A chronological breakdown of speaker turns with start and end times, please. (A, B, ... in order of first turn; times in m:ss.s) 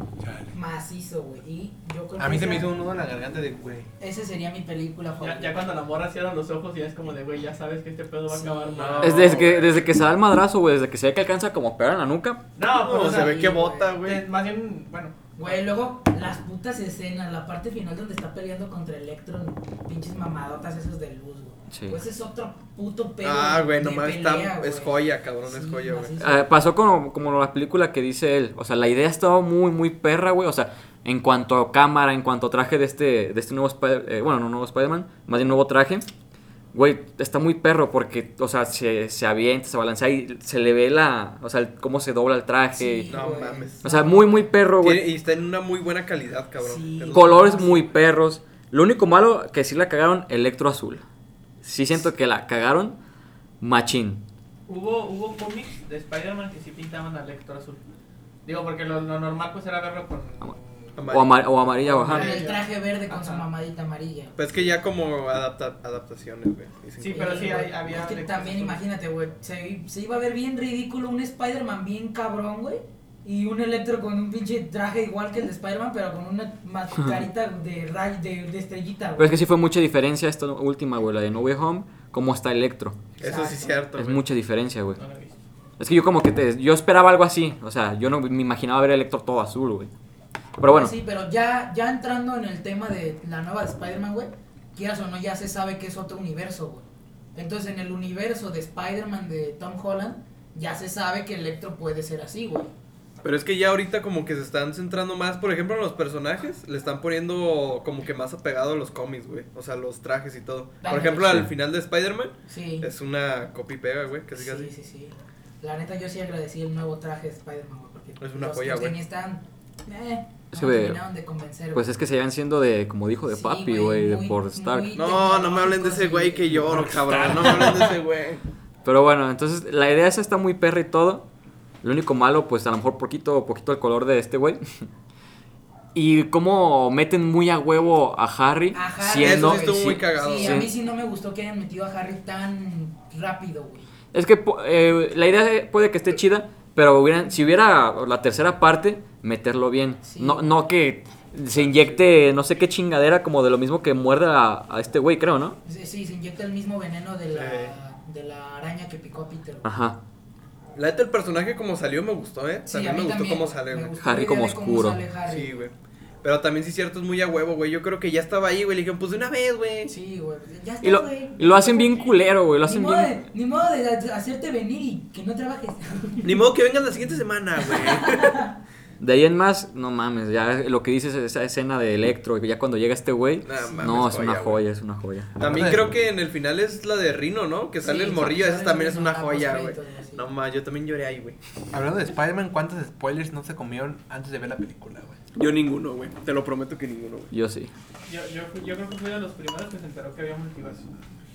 0:00.2-0:00.5 A
0:00.5-0:02.8 B
0:02.2-0:03.9 A
0:04.0-0:05.6 B
0:05.2-0:09.5 C
0:08.3-0:09.2 B
0:08.7-0:09.9 D
0:09.0-0:12.4 E
0:12.6-0:15.6 C
0:12.7-0:14.2 D
0:13.0-0:14.0 B
0:15.4-0:26.5 B
0:21.7-0:22.0 E
0:23.2-0:26.2 D
0:26.2-0:36.1 E
0:36.7-0:43.2 E
0:42.7-0:44.5 B
0:43.1-0:44.0 D
0:43.8-0:45.1 E
0:44.8-0:47.5 D
0:46.6-0:47.9 B
0:47.1-0:51.0 E
0:51.6-0:53.0 E
0:53.6-0:54.2 E
0:54.7-0:57.8 C
0:58.4-1:01.0 C
1:01.0-1:01.5 D
1:01.1-1:02.4 E
1:01.8-1:03.4 C
1:02.0-1:04.4 B
1:04.4-1:07.6 D
1:07.0-1:08.8 C
1:07.1-1:19.4 B
1:19.2-1:23.1 E
1:23.2-1:24.2 D
1:23.2-1:23.8 B
1:23.9-1:25.0 E
1:25.0-1:25.4 C
1:25.8-1:29.9 E
1:30.6-1:30.9 E
1:30.6-1:42.7 B
1:43.2-1:54.7 D
1:50.8-1:51.4 B
1:52.5-1:52.9 B
1:54.3-2:01.9 B
1:58.2-1:59.0 D
2:00.5-2:01.0 E
2:01.7-2:04.9 E
2:03.3-2:06.8 B
2:04.9-2:08.4 D
2:06.7-2:07.9 A
2:08.8-2:11.2 E
2:11.8-2:14.6 E
2:15.9-2:20.7 E
2:18.7-2:23.9 B
2:19.2-2:20.7 D
2:24.1-2:35.6 E
2:30.0-2:30.6 B
2:31.6-2:32.0 D
2:35.6-2:39.7 B
2:37.3-2:37.7 D
2:39.6-2:40.0 E
2:40.7-2:43.9 D
2:42.7-2:45.6 B
2:44.0-2:45.0 E
2:45.2-2:49.9 D
2:49.8-2:56.4 B
2:50.8-2:53.2 E
2:56.2-2:58.4 D
2:57.7-2:58.5 B
2:59.0-3:05.3 E
3:03.4-3:04.6 D
3:03.6-3:03.9 B
3:05.4-3:11.4 D
3:05.4-3:05.9 A
3:07.8-3:10.3 B
3:11.7-3:15.2 A
3:15.4-3:17.3 D
3:17.3-3:17.7 E
3:18.0-3:20.9 C